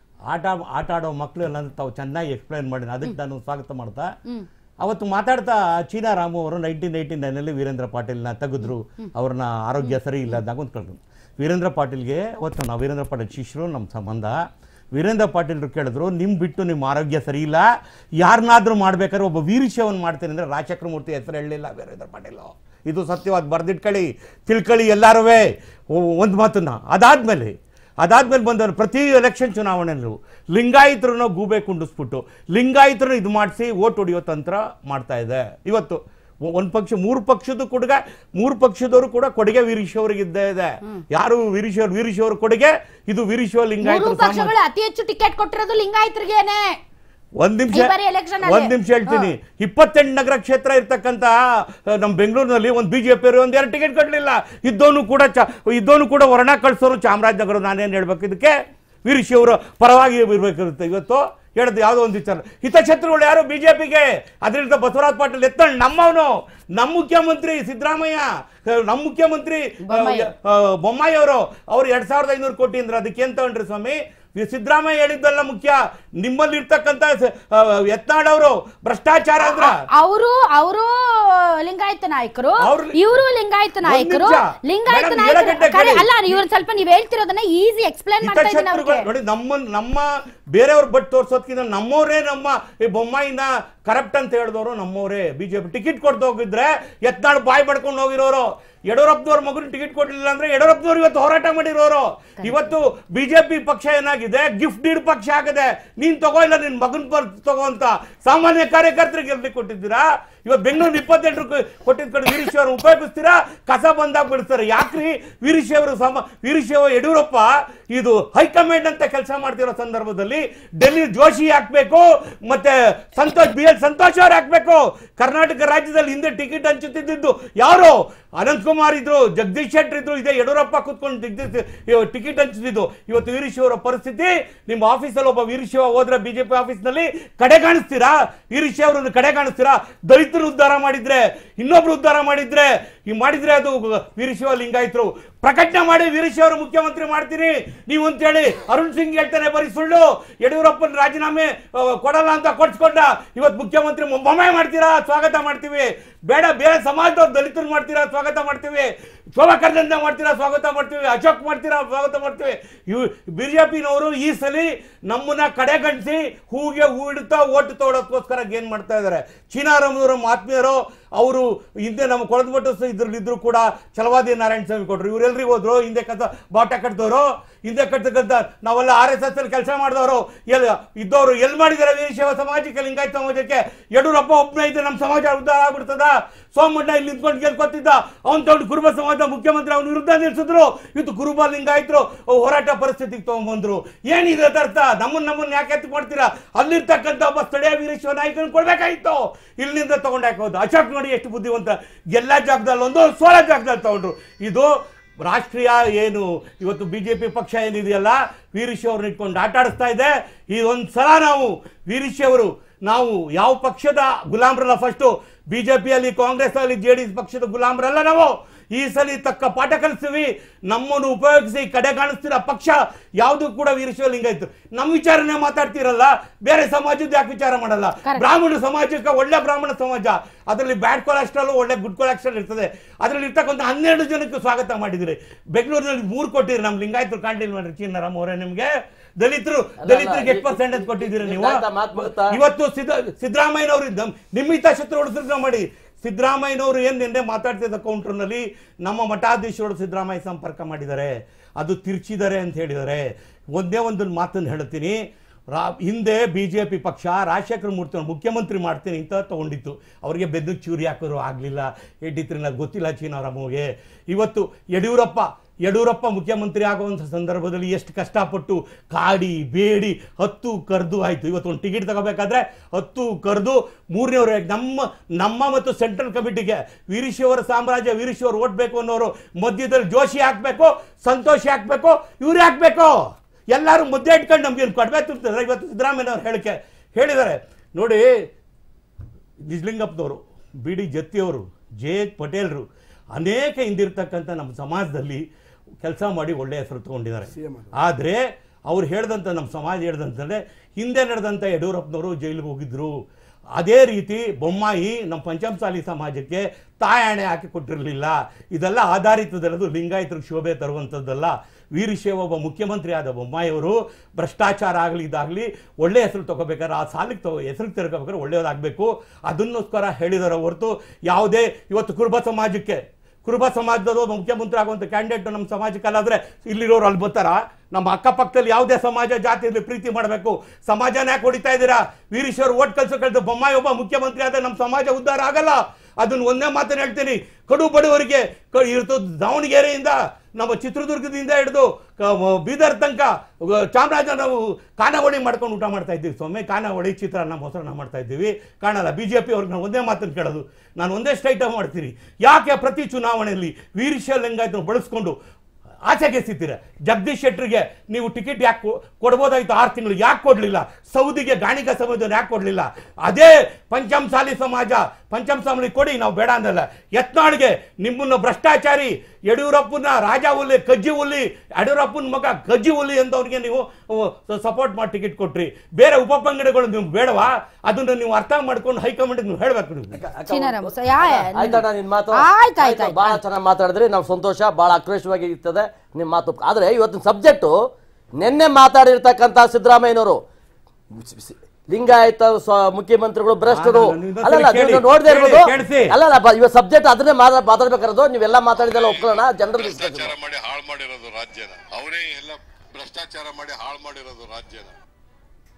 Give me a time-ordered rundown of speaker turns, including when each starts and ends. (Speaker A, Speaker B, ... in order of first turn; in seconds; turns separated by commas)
Speaker A: 0.3-4.1, Speaker A: 4.8-14.4, Speaker A: 14.9-17.6, Speaker A: 18.2-44.5, Speaker B: 43.8-46.8, Speaker A: 47.4-58.5, Speaker B: 47.7-49.3, Speaker A: 59.0-79.8, Speaker B: 69.8-70.3, Speaker B: 79.4-89.0, Speaker A: 82.6-83.0, Speaker A: 83.8-86.4, Speaker A: 88.2-204.7, Speaker B: 102.4-102.7, Speaker A: 205.2-255.0, Speaker C: 239.8-242.4, Speaker A: 255.5-288.1, Speaker A: 289.4-295.2, Speaker A: 295.8-302.9, Speaker A: 303.6-355.1, Speaker A: 355.9-380.0, Speaker C: 379.9-387.5, Speaker B: 380.3-383.2, Speaker C: 388.2-390.2, Speaker C: 390.9-400.1, Speaker A: 393.5-395.9, Speaker D: 398.6-404.7